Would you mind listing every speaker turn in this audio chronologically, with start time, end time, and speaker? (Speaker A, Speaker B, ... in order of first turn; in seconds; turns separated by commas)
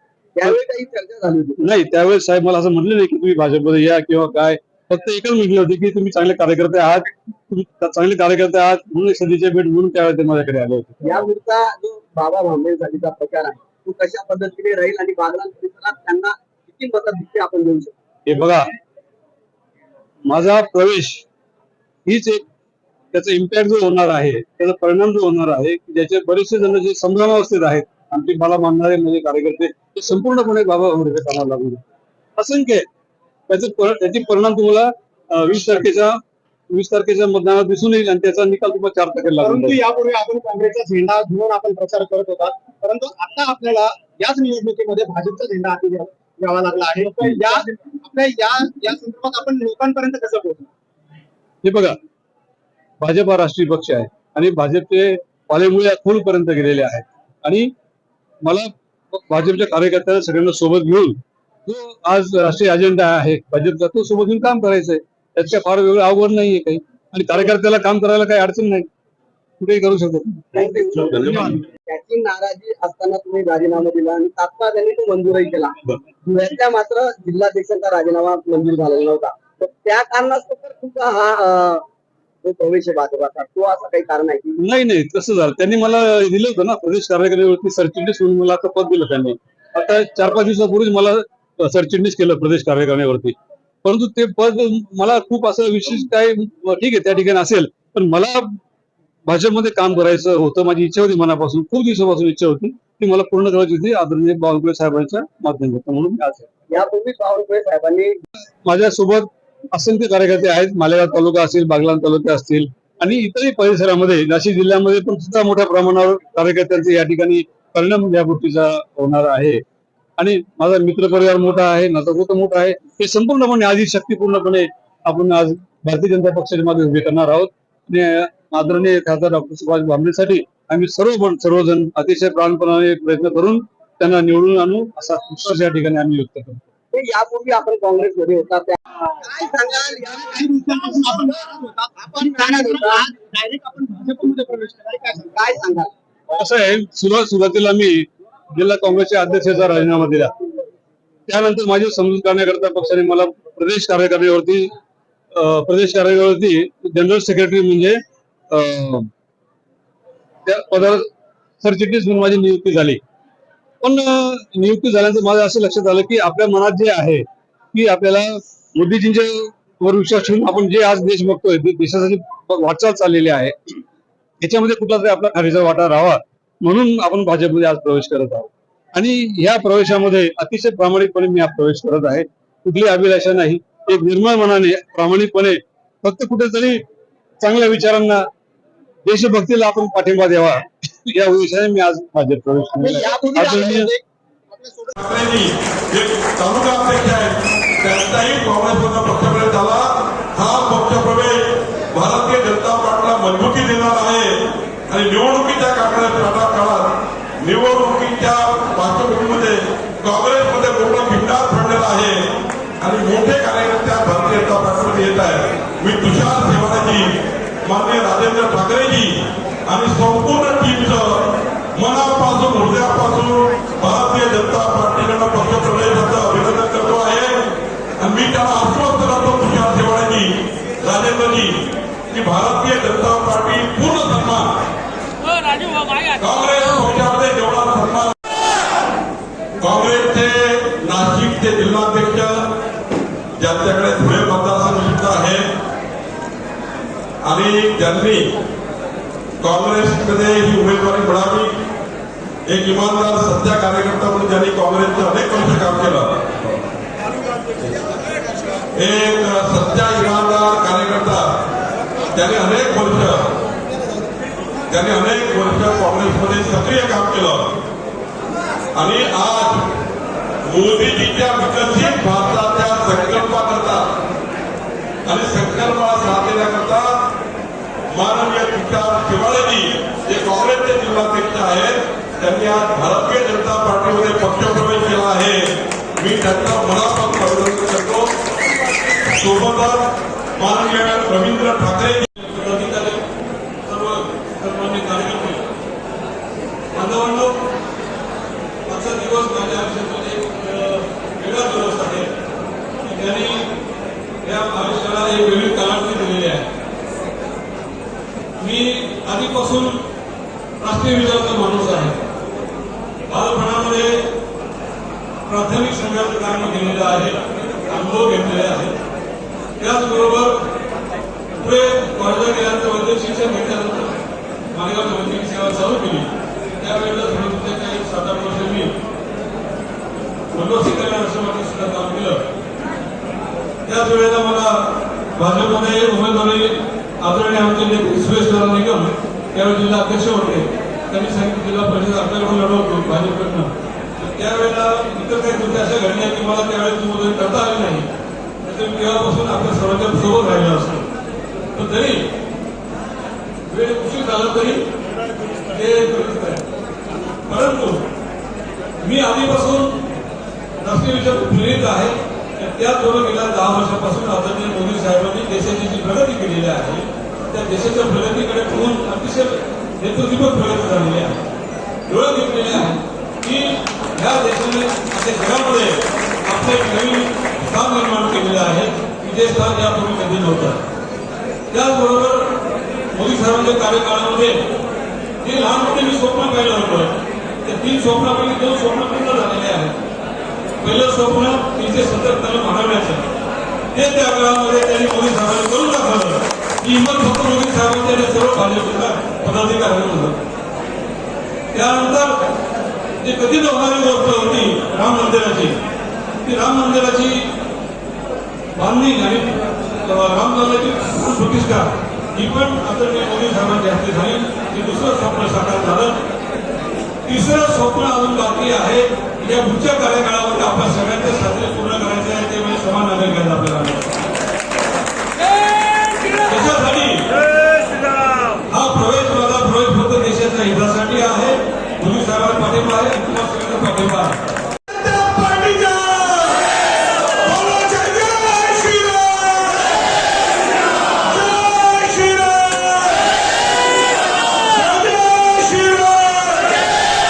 Speaker A: 0.4-1.7, Speaker B: 1.6-11.0, Speaker A: 11.0-17.9, Speaker B: 18.3-18.7, Speaker B: 20.3-21.2, Speaker B: 22.1-22.4, Speaker B: 23.1-31.8, Speaker B: 32.4-32.9, Speaker B: 33.5-36.2, Speaker B: 36.7-39.8, Speaker C: 39.4-50.7, Speaker B: 51.6-52.0, Speaker B: 53.0-57.7, Speaker B: 58.4-68.9, Speaker B: 69.6-70.7, Speaker A: 70.5-81.8, Speaker A: 82.4-84.6, Speaker B: 84.6-98.6, Speaker B: 99.3-106.5, Speaker A: 106.7-108.2, Speaker B: 108.7-119.6, Speaker B: 120.2-136.6, Speaker A: 136.9-140.3, Speaker C: 140.0-145.3, Speaker A: 142.2-143.1, Speaker A: 145.3-145.9, Speaker B: 146.3-150.3, Speaker B: 151.3-154.7, Speaker B: 155.3-158.0, Speaker B: 158.5-159.1, Speaker B: 160.5-161.1, Speaker B: 161.6-163.0, Speaker B: 163.8-173.7, Speaker B: 174.4-186.8, Speaker B: 187.4-188.2, Speaker B: 189.1-193.9, Speaker C: 192.8-194.0, Speaker C: 194.5-194.9, Speaker D: 195.0-204.4, Speaker D: 204.9-212.2, Speaker D: 212.8-217.1, Speaker D: 217.6-219.1, Speaker D: 219.7-221.2, Speaker D: 221.8-227.4, Speaker D: 228.0-231.6, Speaker D: 232.1-234.5, Speaker D: 236.2-238.2, Speaker D: 239.6-242.5, Speaker D: 243.4-245.5, Speaker D: 247.2-248.3, Speaker D: 249.4-251.5, Speaker D: 252.5-256.5, Speaker D: 258.7-261.2, Speaker D: 262.1-263.3, Speaker D: 264.7-267.5, Speaker D: 268.7-269.7, Speaker D: 270.4-273.9, Speaker D: 275.1-276.9, Speaker D: 277.9-288.1, Speaker D: 289.1-292.1, Speaker E: 292.2-293.1, Speaker E: 293.6-295.4, Speaker E: 296.7-297.4, Speaker E: 298.7-302.1, Speaker E: 302.8-303.5, Speaker E: 304.2-306.5, Speaker E: 308.4-309.8, Speaker E: 310.6-312.0, Speaker E: 313.1-314.1, Speaker E: 315.3-318.8, Speaker E: 319.6-320.4, Speaker E: 321.4-324.0, Speaker E: 324.5-328.8, Speaker E: 330.3-332.2, Speaker E: 333.6-347.9, Speaker E: 348.4-350.9, Speaker E: 351.5-352.1, Speaker E: 353.5-354.6, Speaker E: 355.5-356.4, Speaker E: 357.3-357.9, Speaker E: 358.8-359.8, Speaker E: 360.6-371.2, Speaker E: 371.9-380.6, Speaker E: 381.5-382.4, Speaker E: 382.9-384.5, Speaker E: 385.2-389.8, Speaker E: 390.6-393.1, Speaker E: 393.7-400.2, Speaker E: 401.5-402.2, Speaker E: 403.0-405.6, Speaker E: 406.2-407.3, Speaker E: 408.5-416.0, Speaker E: 417.1-423.9, Speaker E: 426.0-427.1, Speaker E: 428.5-434.2, Speaker D: 434.8-439.6, Speaker D: 441.1-443.1, Speaker D: 444.5-446.8